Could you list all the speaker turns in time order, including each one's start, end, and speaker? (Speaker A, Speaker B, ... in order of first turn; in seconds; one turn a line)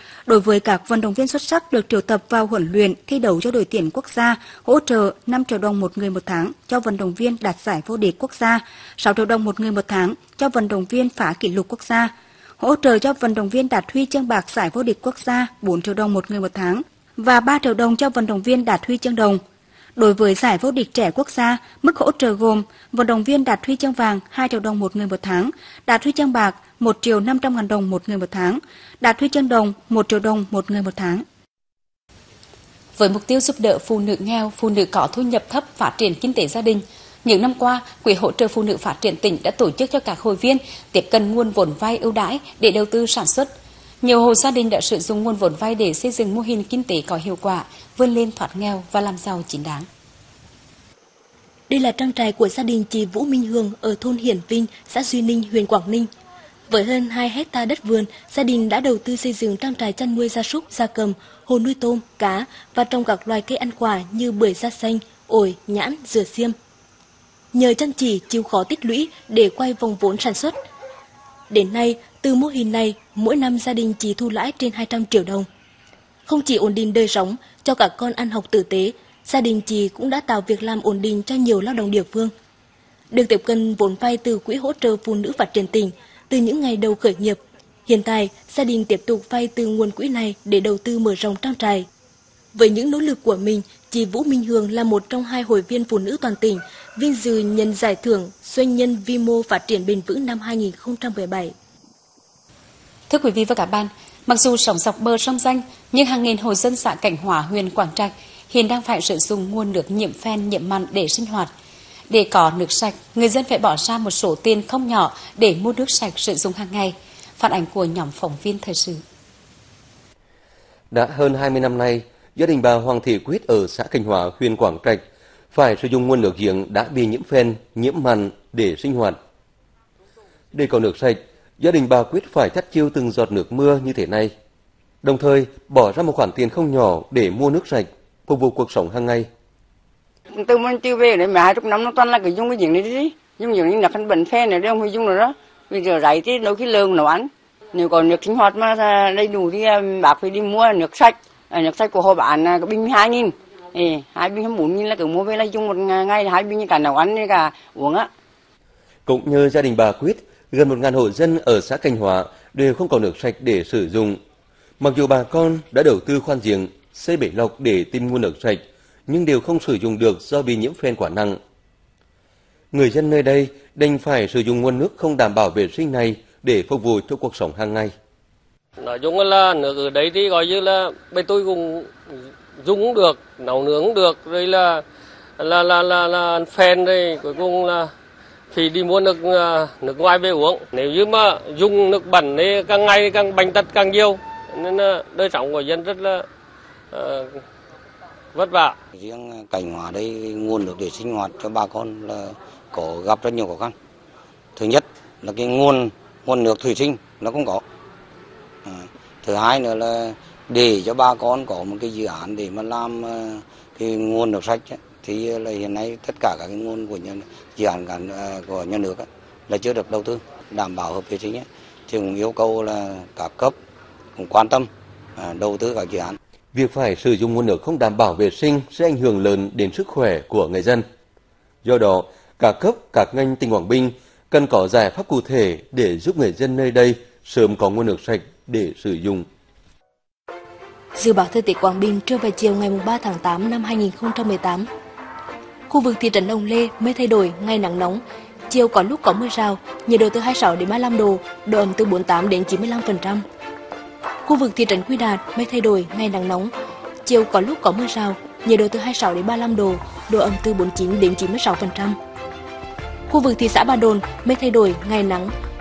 Speaker A: 0.3-19.4
Speaker A: 19.9-31.2
Speaker B: 33.0-43.5
Speaker B: 44.0-49.9
Speaker C: 51.7-56.1
Speaker C: 56.7-66.5
Speaker C: 67.5-70.5
Speaker C: 71.5-75.5
Speaker C: 76.3-82.3
Speaker C: 83.1-91.8
Speaker C: 92.5-101.5
Speaker B: 103.1-111.5
Speaker B: 112.1-119.0
Speaker D: 120.9-129.2
Speaker D: 130.5-134.3
Speaker D: 135.0-139.3
Speaker E: 140.3-158.1
Speaker D: 159.1-164.2
Speaker D: 164.8-171.4
Speaker D: 172.7-177.9
Speaker F: 178.8-181.9
Speaker F: 182.6-184.8
Speaker F: 185.4-187.9
Speaker F: 188.5-196.2
Speaker F: 196.9-197.4
Speaker F: 198.3-198.8
Speaker G: 199.0-203.7
Speaker G: 204.6-207.6
Speaker G: 208.7-223.5
Speaker G: 224.2-224.7
Speaker G: 225.2-226.2
Speaker D: 226.5-230.8
Speaker D: 231.6-239.2
Speaker C: 240.9-244.7
Speaker C: 245.7-253.2
Speaker C: 254.2-256.5
Speaker C: 257.0-261.9
Speaker C: 263.1-265.3